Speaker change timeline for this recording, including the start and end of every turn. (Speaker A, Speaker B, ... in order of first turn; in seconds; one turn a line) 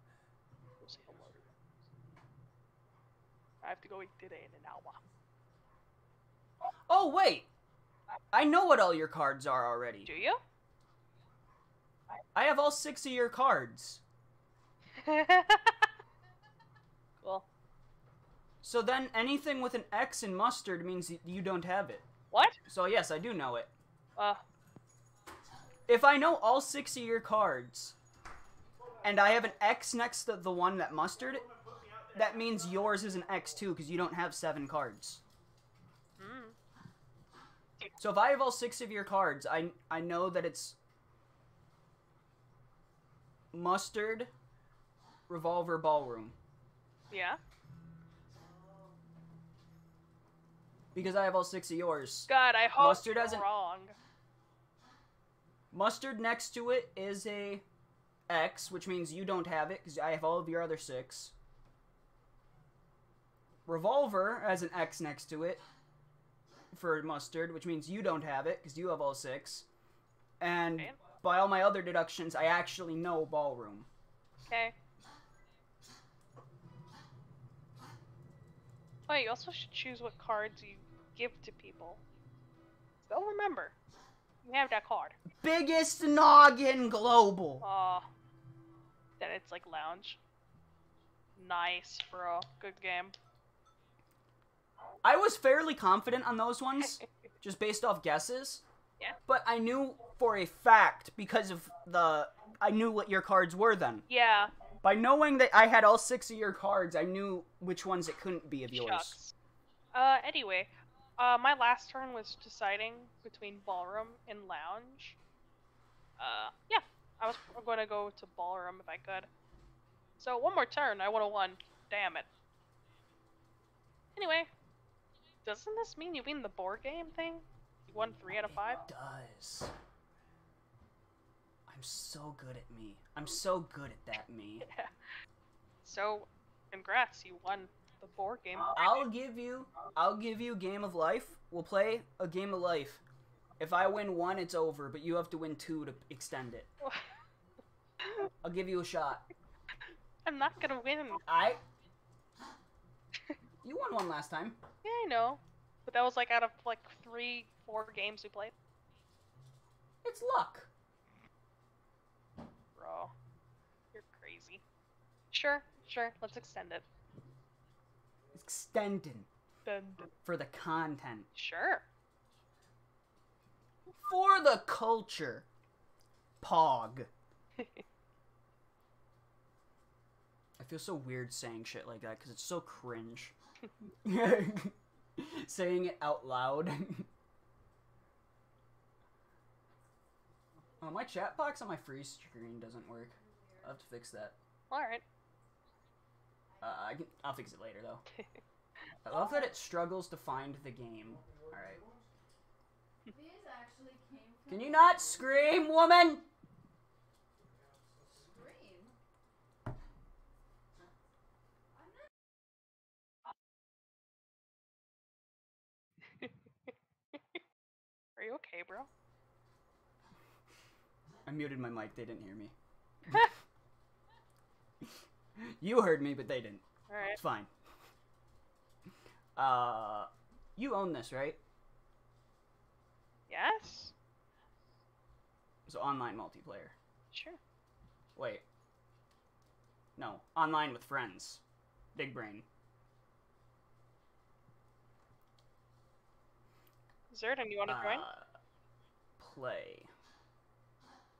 Speaker A: 0.8-1.5
Speaker A: 3.6-5.0
Speaker B: 6.9-7.5
Speaker B: 8.3-10.1
Speaker A: 10.1-10.4
Speaker B: 12.3-14.0
Speaker A: 14.9-15.9
Speaker A: 17.2-17.5
Speaker B: 18.6-22.1
Speaker A: 22.3-22.6
Speaker B: 22.6-23.7
Speaker A: 24.2-24.4
Speaker B: 25.9-28.0
Speaker B: 29.0-31.5
Speaker B: 32.0-35.2
Speaker A: 36.2-36.6
Speaker B: 38.0-40.8
Speaker B: 43.5-44.3
Speaker B: 45.3-46.4
Speaker A: 47.1-47.4
Speaker B: 50.9-53.5
Speaker A: 52.3-54.0
Speaker B: 55.7-57.6
Speaker B: 58.3-61.3
Speaker B: 63.7-65.6
Speaker B: 66.7-69.7
Speaker B: 70.4-73.9
Speaker A: 70.8-71.0
Speaker A: 74.5-74.8
Speaker A: 79.1-82.0
Speaker A: 83.0-83.8
Speaker A: 84.4-85.2
Speaker B: 85.3-87.7
Speaker A: 87.6-88.1
Speaker A: 89.2-90.2
Speaker A: 91.4-93.2
Speaker B: 95.0-98.6
Speaker B: 99.3-104.1
Speaker A: 104.1-104.5
Speaker B: 104.8-109.2
Speaker A: 108.7-109.3
Speaker A: 109.9-115.2
Speaker A: 116.2-119.3
Speaker A: 120.2-122.3
Speaker A: 124.2-124.5
Speaker A: 125.4-128.8
Speaker B: 128.7-129.7
Speaker B: 131.7-134.7
Speaker A: 134.6-134.9
Speaker A: 135.8-138.9
Speaker B: 138.7-143.0
Speaker B: 143.6-146.7
Speaker A: 146.8-147.1
Speaker A: 148.0-148.3
Speaker B: 148.4-149.2
Speaker A: 150.2-151.2
Speaker B: 151.3-151.6
Speaker B: 153.6-154.6
Speaker A: 154.8-158.5
Speaker B: 160.0-160.7
Speaker A: 162.8-163.1
Speaker A: 163.9-164.6
Speaker A: 165.3-166.9
Speaker B: 168.3-169.3
Speaker A: 169.7-170.1
Speaker B: 170.2-171.3
Speaker A: 171.3-171.8
Speaker B: 174.1-175.5
Speaker B: 176.4-177.1
Speaker A: 177.6-177.8
Speaker B: 180.6-183.3
Speaker B: 184.0-187.1
Speaker B: 190.8-194.3
Speaker C: 193.2-193.7
Speaker A: 194.7-195.0
Speaker B: 196.6-198.0
Speaker B: 199.0-201.8
Speaker C: 203.1-205.3
Speaker B: 204.5-206.2
Speaker C: 208.1-208.9
Speaker A: 218.2-218.9
Speaker B: 221.3-222.5
Speaker B: 224.8-227.5
Speaker A: 226.9-227.2
Speaker B: 229.4-231.4
Speaker A: 233.3-233.9
Speaker B: 235.7-236.8
Speaker A: 237.1-237.4
Speaker B: 238.2-238.4
Speaker B: 240.0-241.4
Speaker B: 241.9-242.5
Speaker A: 247.1-248.1
Speaker B: 247.7-248.3
Speaker B: 249.2-249.9